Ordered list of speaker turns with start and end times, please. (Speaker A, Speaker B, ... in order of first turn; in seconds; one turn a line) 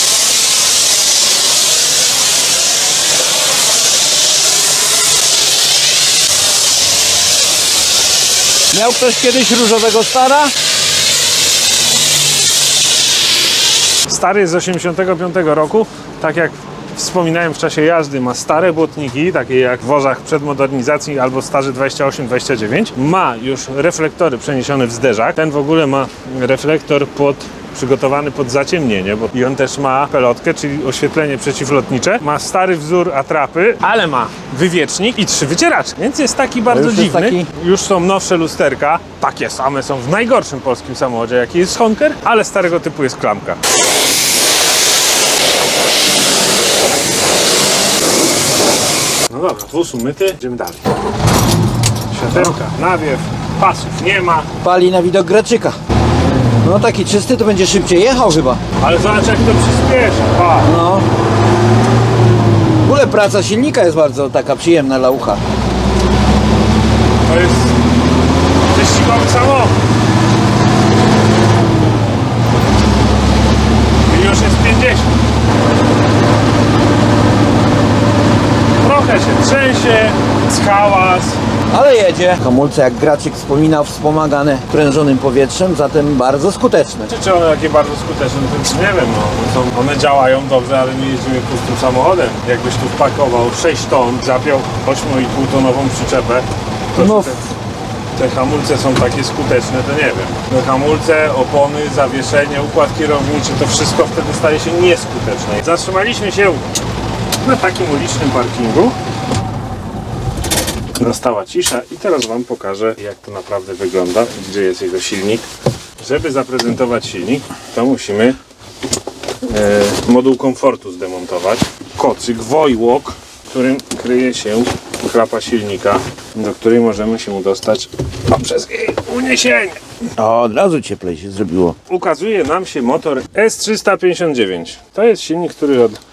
Speaker A: 8.7-10.5
Speaker B: 14.1-43.6
Speaker A: 36.7-37.5
Speaker B: 49.3-50.9
Speaker B: 52.1-54.5
Speaker A: 54.6-55.8
Speaker A: 56.6-58.6
Speaker B: 58.8-60.7
Speaker A: 60.6-61.1
Speaker A: 62.8-65.4
Speaker B: 67.2-67.8
Speaker B: 68.7-69.7
Speaker B: 74.1-75.1
Speaker B: 78.8-81.4
Speaker A: 81.7-87.1
Speaker B: 87.1-97.5
Speaker A: 96.9-97.4
Speaker B: 98.1-106.7
Speaker B: 107.4-109.0
Speaker B: 111.0-115.5
Speaker B: 116.0-118.4
Speaker B: 119.4-129.8
Speaker A: 130.2-131.8
Speaker B: 131.9-136.0